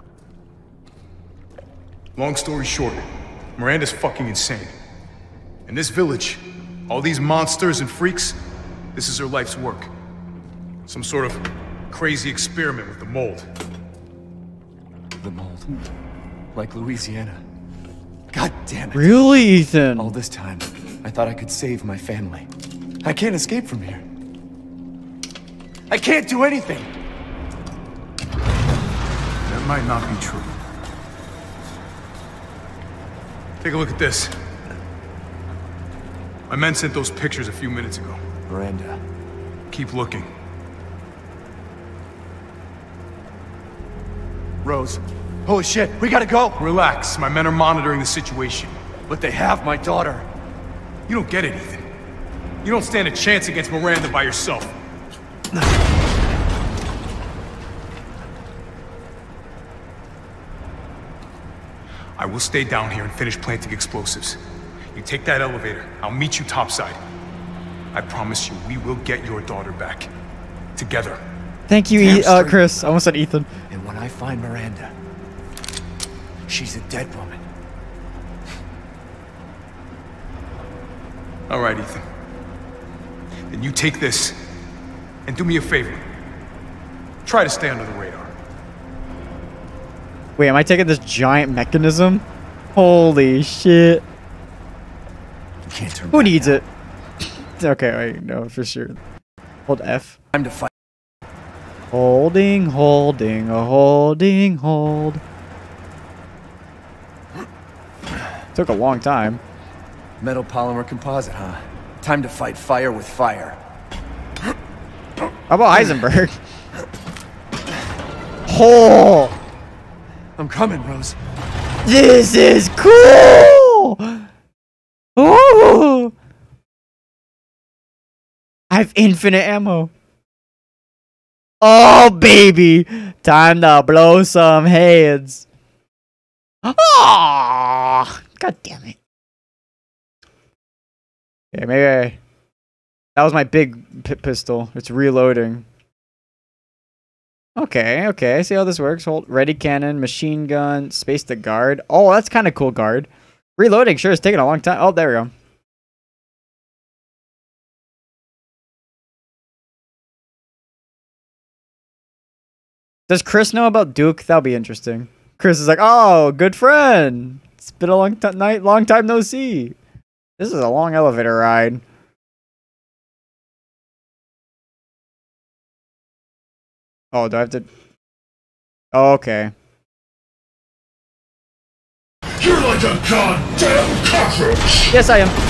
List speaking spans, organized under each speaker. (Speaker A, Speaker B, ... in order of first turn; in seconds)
Speaker A: 2.1-4.7, 5.7-8.4, 8.9-9.9, 10.9-13.5, 29.5-30.5, 33.6-34.4, 36.5-38.2, 39.7-40.3, 46.6-48.8, 51.1-51.9, 52.6-54.8, 62.2-64.4, 65.0-67.0, 67.9-70.1, 70.8-71.2, 81.5-82.0, 83.5-84.4, 85.3-86.1, 87.2-88.3
Speaker B: 15.2-15.7, 16.5-17.4, 18.3-19.4, 20.0-22.5, 23.0-24.1, 25.9-26.9, 38.5-39.0, 44.6-46.7, 49.1-50.3, 72.0-72.7, 73.7-75.0, 76.5-77.4, 95.7-96.6, 100.3-100.7, 110.2-113.6, 120.4-121.2
Speaker C: 18.9-20.1, 71.7-73.5, 90.4-94.0, 96.1-96.7, 97.4-99.0, 99.7-100.2, 101.9-105.2, 108.5-109.4, 115.5-116.4, 118.5-119.3, 121.9-124.3, 125.2-126.1, 128.7-129.9, 131.6-135.4, 136.6-139.0, 141.5-142.2, 143.2-145.7, 147.6-155.3, 163.1-169.8, 170.4-171.8, 177.1-177.7, 178.9-179.5, 184.9-185.4
Speaker D: 182.4-184.8